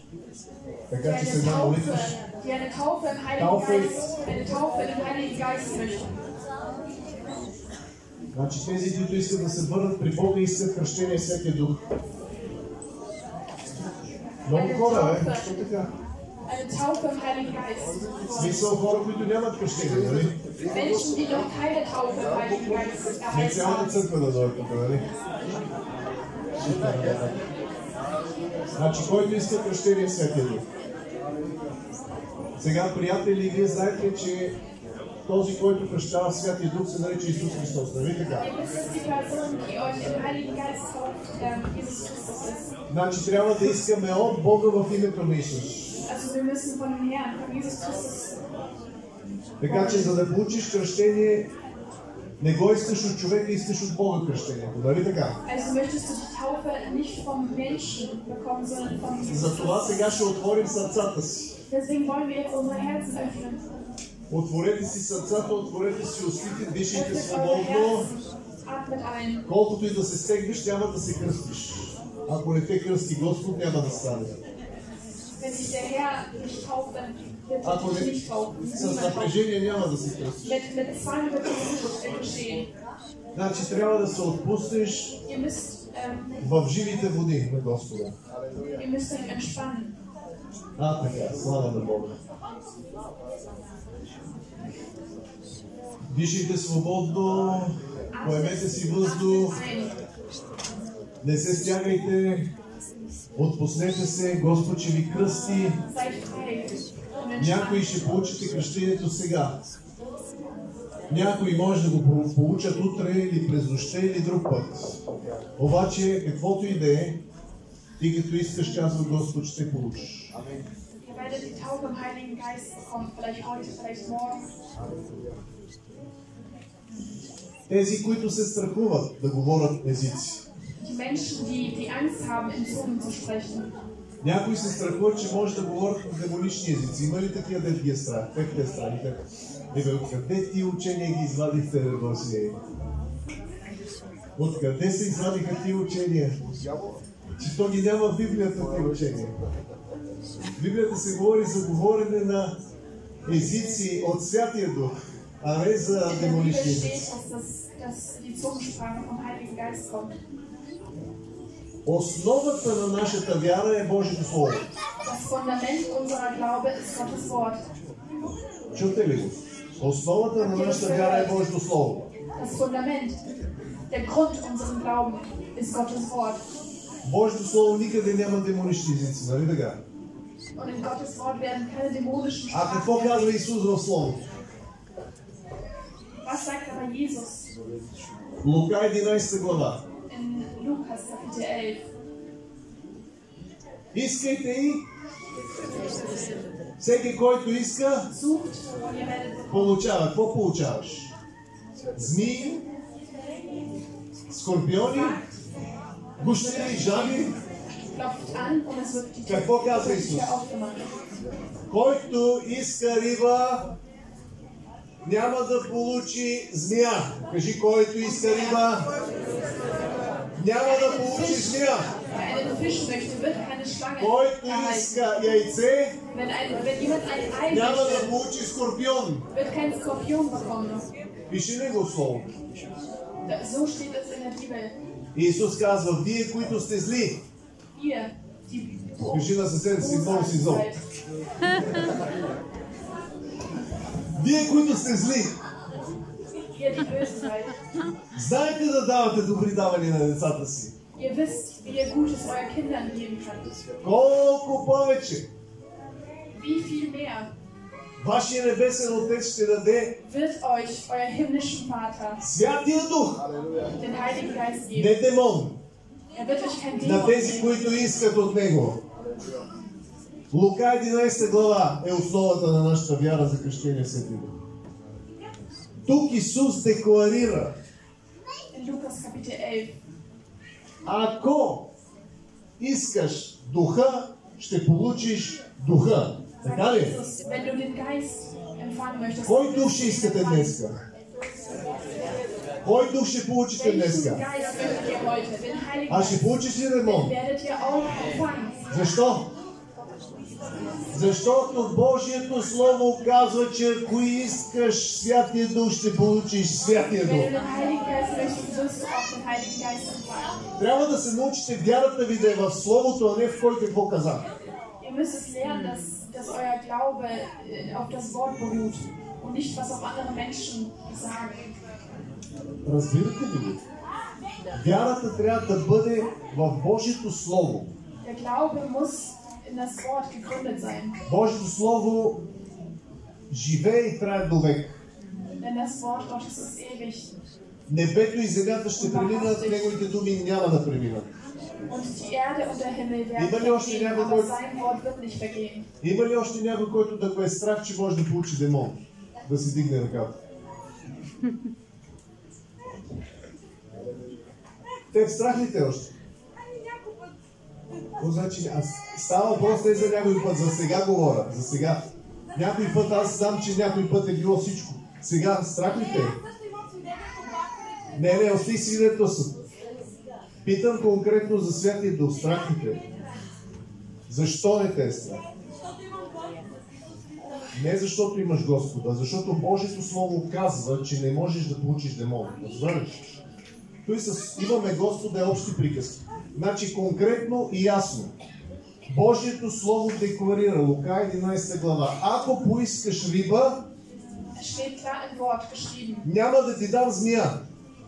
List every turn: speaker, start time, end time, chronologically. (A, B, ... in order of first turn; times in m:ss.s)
0:00.9-0:02.1 A
0:01.0-0:06.2 B
0:03.4-0:03.9 A
0:08.3-0:11.8 A
0:14.4-0:15.9 A
0:14.5-0:15.5 B
0:16.5-0:18.7 B
0:18.4-0:20.4 A
0:20.7-0:24.0 B
0:23.3-0:25.1 A
0:26.6-0:27.4 A
0:28.8-0:30.6 A
0:32.6-0:34.6 A
0:35.3-0:38.5 A
0:38.4-0:42.7 B
0:42.9-0:46.0 A
0:46.1-0:48.4 B
0:49.6-0:51.5 A
0:49.6-0:50.2 B
0:52.4-0:55.4 A
0:55.4-1:00.0 B
0:59.3-1:01.6 A
1:01.7-1:03.6 B
1:04.3-1:08.1 A
1:06.9-1:09.5 B
1:09.5-1:14.4 A
1:15.4-1:19.4 B
1:17.6-1:20.6 A
1:20.4-1:22.7 B
1:23.3-1:25.2 A
1:25.3-1:26.5 B
1:26.4-1:28.2 A
1:28.7-1:29.9 B
1:30.8-1:32.1 A
1:36.1-1:39.6 A
1:38.1-1:40.0 B
1:41.2-1:42.5 A
1:43.4-1:45.8 A
1:45.8-1:47.9 B
1:47.4-1:49.6 A
1:51.1-1:55.0 A
1:55.6-1:57.2 A
1:58.0-2:00.3 A
2:01.0-2:04.5 B
2:07.7-2:10.4 A
2:10.8-2:13.7 B
2:14.2-2:19.2 A
2:19.7-2:22.6 A
2:24.4-2:26.4 A
2:27.4-2:29.3 A
2:30.6-2:32.6 A
2:33.3-2:37.1 A
2:36.0-2:40.2 B
2:41.9-2:44.7 A
2:45.0-2:47.6 B
2:48.7-2:52.1 A
2:50.4-2:51.4 B
2:52.4-2:53.2 B
2:53.9-2:56.4 B
2:57.0-2:59.8 A
3:00.6-3:03.4 B
3:02.5-3:04.2 A
3:06.2-3:07.5 B
3:08.4-3:09.8 A
3:10.1-3:11.9 B
3:13.9-3:14.8 A
3:16.8-3:18.1 A
3:18.1-3:19.9 B
3:19.5-3:21.1 A
3:22.0-3:22.6 A
3:24.3-3:25.2 A
3:24.9-3:25.3 B
3:26.2-3:27.4 A
3:26.2-3:27.3 B
3:27.9-3:30.9 B
3:29.3-3:30.4 A
3:31.7-3:33.7 A
3:35.0-3:38.9 A
3:38.0-3:38.7 B
3:40.4-3:41.9 A
3:40.6-3:45.0 B
3:44.0-3:46.0 A
3:46.1-3:48.1 B
3:47.5-3:49.3 A
3:49.3-3:50.9 B
3:51.3-3:52.3 A
3:53.2-3:54.8 B
3:55.2-3:57.2 A
3:57.8-4:00.8 B
3:59.1-4:00.7 A
4:04.2-4:05.4 A
4:06.5-4:07.6 B
4:08.1-4:10.8 A
4:11.0-4:13.6 B
4:13.8-4:15.3 A
4:16.3-4:17.3 B
4:18.0-4:20.0 A
4:20.0-4:22.2 B
4:22.2-4:23.3 A
4:23.7-4:25.0 B
4:24.7-4:25.6 A
4:26.1-4:27.6 B
4:26.8-4:28.8 A
4:30.3-4:34.3 A
4:35.9-4:37.5 A
4:38.5-4:39.8 B
4:40.8-4:41.7 A
4:42.6-4:47.0 A
4:46.4-4:50.6 B
4:49.2-4:50.8 A
4:52.6-4:54.2 A
4:53.5-4:58.7 B
4:55.9-4:57.2 A
4:58.7-4:59.3 A
5:00.9-5:07.3 A
5:07.0-5:10.4 B
5:10.6-5:14.3 A
5:14.8-5:21.5 B
5:22.6-5:23.6 A
5:24.5-5:27.8 A
5:28.0-5:31.0 B
5:31.1-5:32.2 A
5:33.3-5:34.8 A
5:35.4-5:37.1 B
5:37.7-5:41.1 A
5:38.8-5:39.7 B
5:41.7-5:45.7 B
5:43.2-5:44.3 A
5:45.8-5:50.2 A
5:54.9-5:55.9 A
5:58.0-6:06.2 A
6:08.0-6:09.4 A
6:10.4-6:12.8 A
6:14.1-6:15.2 A
6:17.5-6:23.1 A
6:23.8-6:28.1 A
6:28.9-6:33.6 A
6:34.4-6:36.1 B
6:36.0-6:37.4 A